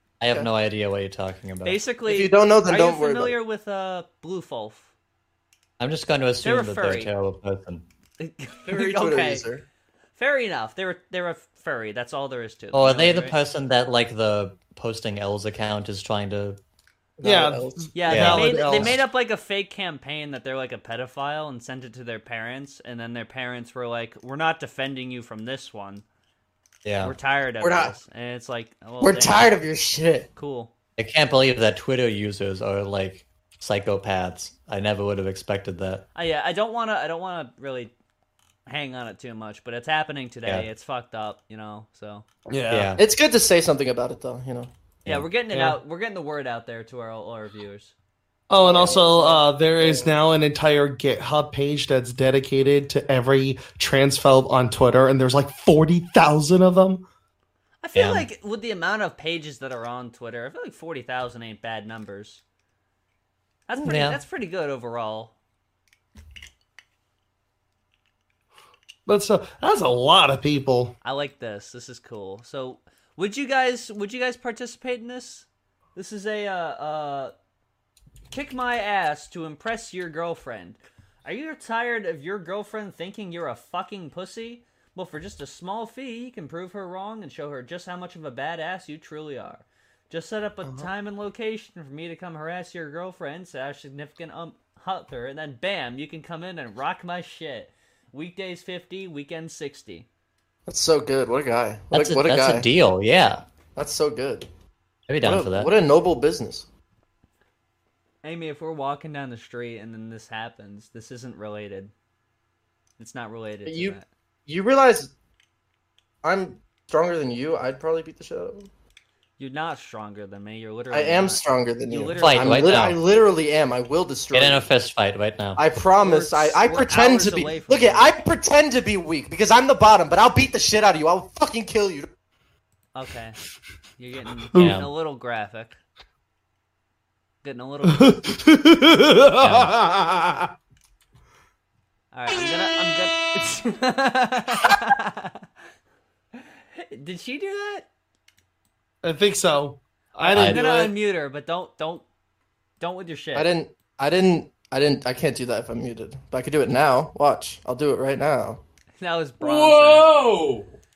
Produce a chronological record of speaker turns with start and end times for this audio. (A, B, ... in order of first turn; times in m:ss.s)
0:00.2-0:01.8 A
0:01.6-0:04.9 B
0:02.0-0:03.4 C
0:05.8-0:07.8 A
0:06.4-0:07.1 B
0:08.2-0:09.4 B
0:08.6-0:09.6 C
0:10.2-0:13.4 B
0:12.7-0:16.6 A
0:17.2-0:18.0 C
0:17.2-0:18.9 D
0:17.9-0:26.0 B
0:18.1-0:18.4 A
0:18.5-0:18.9 C
0:26.8-0:27.1 A
0:27.0-0:29.5 B
0:27.6-0:28.0 C
0:29.0-0:30.3 C
0:30.4-0:30.7 B
0:31.0-0:36.0 A
0:36.1-0:37.9 B
0:38.6-0:42.2 B
0:42.5-0:43.0 D
0:42.7-0:43.0 A
0:43.0-0:44.7 C
0:45.0-0:47.9 B
0:45.5-0:45.8 D
0:48.5-0:57.0 D
0:48.6-0:50.1 C
0:48.8-0:49.4 B
0:57.8-1:02.4 B
0:57.9-0:58.3 A
1:03.7-1:05.3 B
1:03.8-1:04.2 A
1:09.1-1:10.9 D
1:11.0-1:17.3 B
1:18.3-1:40.1 B
1:40.7-1:42.7 C
1:41.9-1:43.4 A
1:43.8-1:44.5 C
1:45.1-1:45.7 A
1:45.2-1:46.7 C
1:48.2-1:51.9 B
1:53.0-1:54.1 B
1:53.6-1:55.1 C
1:56.2-1:58.7 C
1:59.4-2:02.8 B
2:00.9-2:04.6 C
2:02.2-2:03.0 A
2:04.3-2:05.6 A
2:05.6-2:12.1 C
2:06.0-2:08.1 B
2:12.9-2:13.4 B
2:14.0-2:15.8 B
2:14.5-2:14.8 D
2:14.6-2:14.9 A
2:17.4-2:18.1 B
2:17.8-2:20.5 D
2:19.4-2:19.7 A
2:22.1-2:25.4 B
2:26.8-2:27.9 B
2:29.0-2:30.9 D
2:30.2-2:32.0 B
2:30.3-2:30.6 A
2:32.8-2:33.5 B
2:33.3-2:38.6 C
2:39.0-2:40.2 B